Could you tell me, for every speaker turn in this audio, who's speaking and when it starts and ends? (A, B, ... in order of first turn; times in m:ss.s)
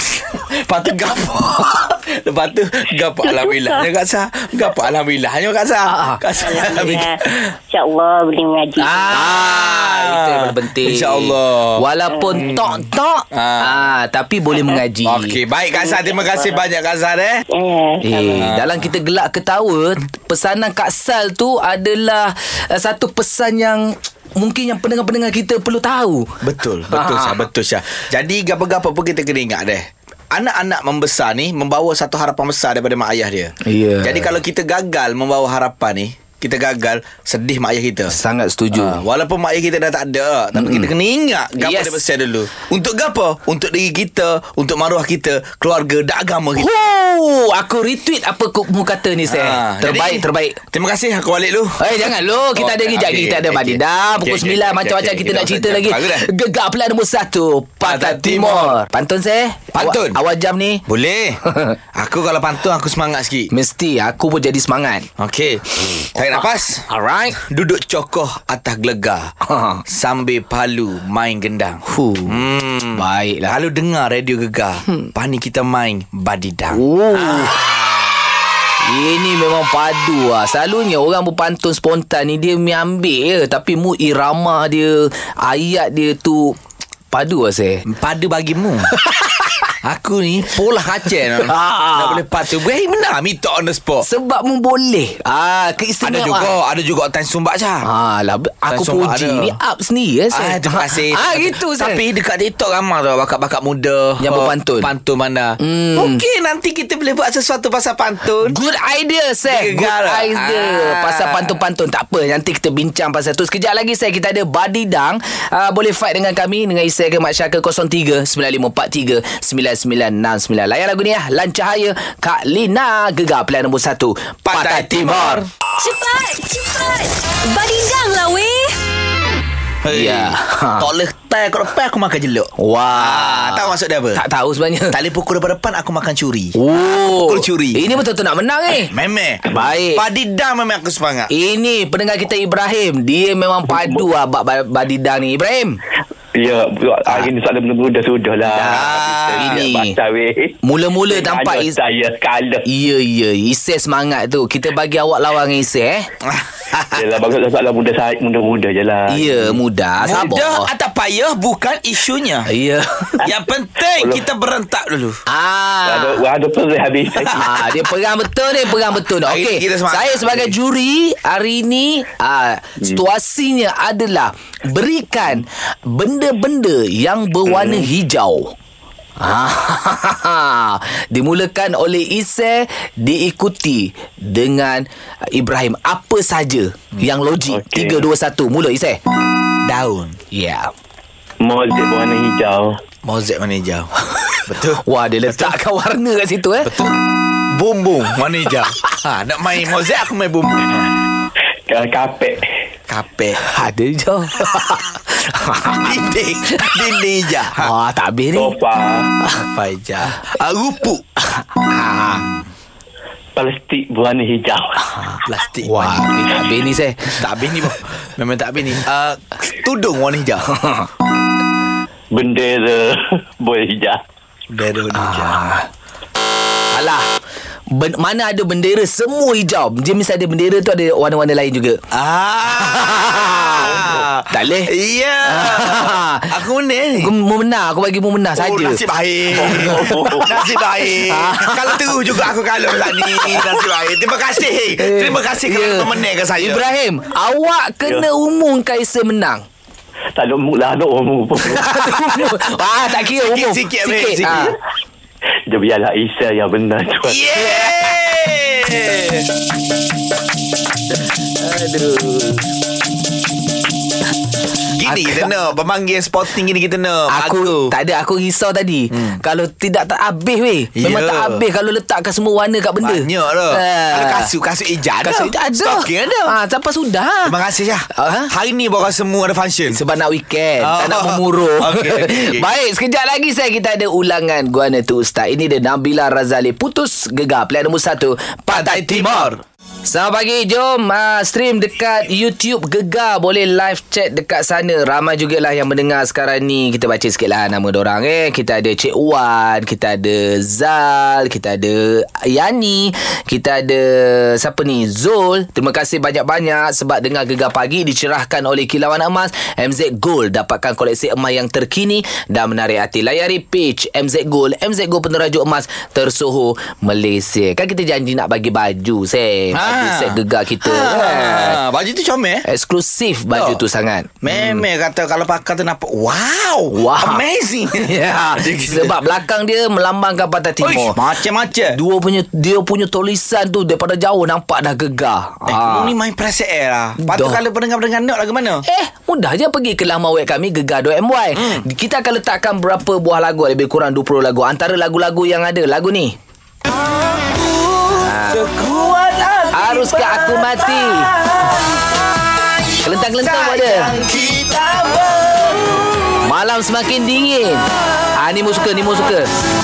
0:00.3-0:07.5 A
0:03.2-0:03.9 B
0:05.9-0:06.2 C
0:06.4-0:07.2 B
0:07.7-0:09.3 B
0:08.8-0:15.3 C
0:09.1-0:11.9 A
0:12.1-0:12.7 B
0:13.3-0:13.8 A
0:15.0-0:17.4 A
0:15.7-0:16.7 B
0:17.5-0:18.5 B
0:18.0-0:26.3 C
0:18.4-0:18.9 A
0:26.4-0:38.2 A
0:26.9-0:27.4 C
0:33.6-0:34.3 C
0:38.1-0:39.0 C
0:38.7-0:46.8 A
0:40.6-0:40.9 C
0:41.6-0:42.0 C
0:46.6-0:50.6 C
0:49.3-0:56.3 A
0:51.8-1:00.8 C
0:57.8-0:58.8 A
0:59.7-1:00.2 A
1:00.9-1:01.4 A
1:01.5-1:01.8 C
1:02.0-1:03.5 A
1:03.5-1:05.1 C
1:05.2-1:09.3 A
1:06.0-1:07.4 C
1:09.5-1:09.8 C
1:09.9-1:18.3 A
1:11.9-1:12.4 C
1:13.0-1:13.5 C
1:16.7-1:17.6 C
1:18.8-1:26.6 C
1:27.1-1:27.8 C
1:27.9-1:28.9 A
1:28.9-1:29.7 C
1:29.8-1:34.1 A
1:31.4-1:32.2 C
1:34.0-1:36.5 C
1:36.0-1:37.8 A
1:37.9-1:42.0 C
1:38.7-1:39.5 A
1:40.3-1:48.6 A
1:44.2-1:44.9 C
1:45.6-1:46.2 C
1:48.4-2:05.4 C
1:49.5-1:51.6 A
2:04.5-2:05.5 A
2:05.8-2:08.8 D
2:09.8-2:14.2 A
2:09.9-2:10.9 C
2:12.6-2:15.0 C
2:14.9-2:18.0 A
2:16.6-2:18.9 C
2:18.9-2:21.3 A
2:19.4-2:20.0 C
2:21.3-2:25.8 C
2:23.7-2:24.1 E
2:26.4-2:32.7 E
2:28.5-2:29.6 A
2:28.6-2:30.0 C
2:30.6-2:31.8 C
2:32.7-2:36.1 C
2:36.2-2:37.1 A
2:37.0-2:39.6 E
2:39.1-2:40.7 C
2:40.0-2:42.5 A
2:42.5-2:43.2 C
2:43.2-2:45.2 A
2:44.0-2:44.3 E
2:45.3-2:46.2 C
2:45.8-2:47.6 E
2:47.2-2:47.7 A
2:47.3-2:58.5 C
2:49.1-2:50.6 A
2:57.5-2:57.9 E
2:59.2-3:09.0 C
3:07.5-3:08.1 E
3:09.6-3:10.2 A
3:10.3-3:10.7 C
3:11.4-3:12.8 E
3:13.0-3:13.9 A
3:14.2-3:16.7 C
3:14.5-3:15.6 A
3:16.6-3:17.0 A
3:17.5-3:20.9 A
3:21.7-3:22.4 E
3:22.9-3:23.4 A
3:23.5-3:26.0 C
3:25.8-3:27.7 A
3:27.6-3:28.6 C
3:28.3-3:29.1 E
3:29.5-3:31.1 A
3:31.3-3:32.3 C
3:32.1-3:32.4 A
3:33.4-3:34.8 E
3:34.9-3:37.2 C
3:35.2-3:36.1 A
3:37.2-3:40.5 A
3:40.5-3:40.9 C
3:42.1-3:44.0 E
3:44.5-3:45.4 A
3:45.0-3:45.7 C
3:46.7-3:47.1 C
3:47.7-3:51.8 C
3:51.9-3:57.1 A
3:52.6-3:54.7 C
3:55.3-3:56.3 C
3:57.0-3:58.8 C
3:58.4-4:06.7 A
3:59.4-4:00.5 E
3:59.4-4:00.2 C
4:00.9-4:02.2 C
4:02.9-4:03.6 C
4:04.8-4:09.4 C
4:10.2-4:11.7 E
4:11.4-4:14.6 C
4:13.2-4:14.6 A
4:15.5-4:17.2 E
4:17.1-4:19.3 A
4:21.4-4:22.5 C
4:24.7-4:27.7 A
4:24.9-4:25.3 C
4:27.1-4:34.3 C
4:28.9-4:29.2 A
4:30.8-4:31.4 A
4:32.8-4:36.4 A
4:35.0-4:37.3 C
4:37.2-4:39.8 A
4:38.0-4:38.3 C
4:39.7-4:49.3 C
4:40.6-4:42.5 A
4:48.5-4:49.4 A
4:49.9-5:21.6 C
5:19.5-5:22.5 A
5:22.5-5:24.7 C
5:23.3-5:23.6 A
5:24.2-5:29.0 A
5:26.7-5:27.2 C
5:27.7-5:31.0 C
5:30.6-5:31.8 A
5:31.7-5:35.9 C
5:35.5-5:38.6 A
5:37.0-5:37.4 C
5:38.7-5:46.2 C
5:41.4-5:41.6 A
5:47.2-5:51.8 A
5:47.9-5:48.5 C
5:49.5-5:51.1 C
5:52.8-5:54.0 C
5:52.9-5:55.8 A
5:56.2-5:59.3 C